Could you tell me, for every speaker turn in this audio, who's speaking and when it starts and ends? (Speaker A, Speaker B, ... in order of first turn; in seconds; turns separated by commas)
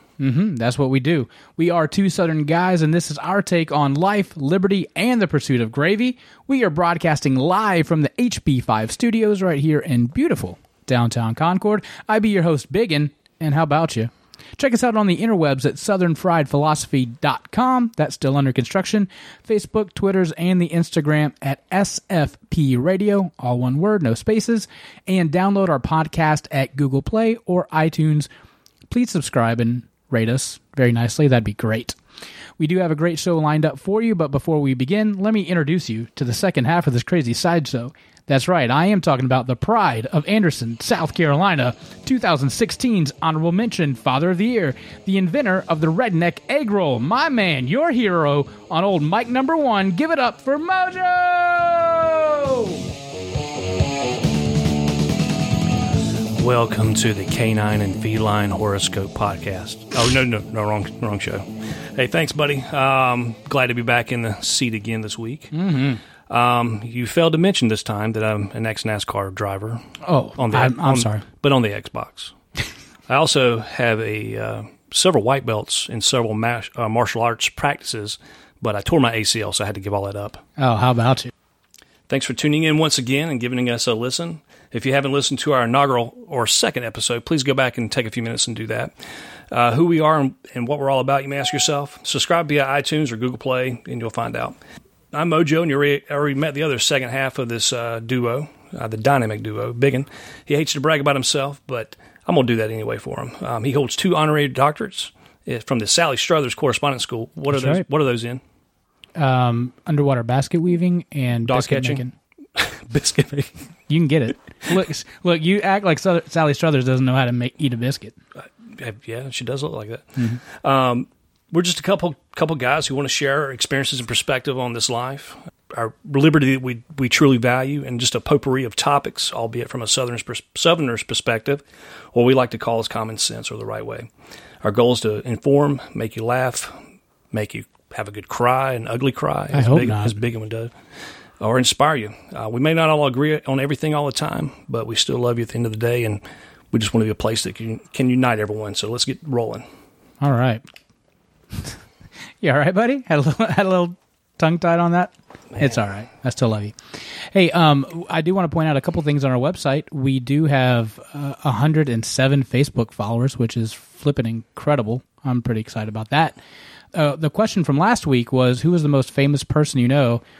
Speaker A: 0.2-28.3, Speaker A: 28.9-31.9, Speaker A: 32.6-52.8, Speaker B: 56.3-65.5, Speaker A: 65.5-66.0, Speaker B: 66.3-69.8, Speaker A: 70.0-71.2, Speaker B: 70.4-72.3, Speaker B: 73.1-80.4, Speaker A: 80.6-81.3, Speaker B: 82.1-88.9, Speaker B: 89.5-94.6, Speaker B: 95.1-108.4, Speaker A: 107.5-107.8, Speaker A: 109.2-112.1, Speaker B: 111.4-112.0, Speaker B: 112.6-113.5, Speaker A: 113.9-118.1, Speaker B: 118.4-134.1, Speaker B: 134.6-136.8, Speaker B: 137.3-140.7, Speaker A: 139.5-140.1, Speaker B: 141.4-149.6, Speaker A: 150.2-150.6, Speaker A: 152.4-156.7, Speaker A: 157.3-166.4, Speaker A: 166.9-170.2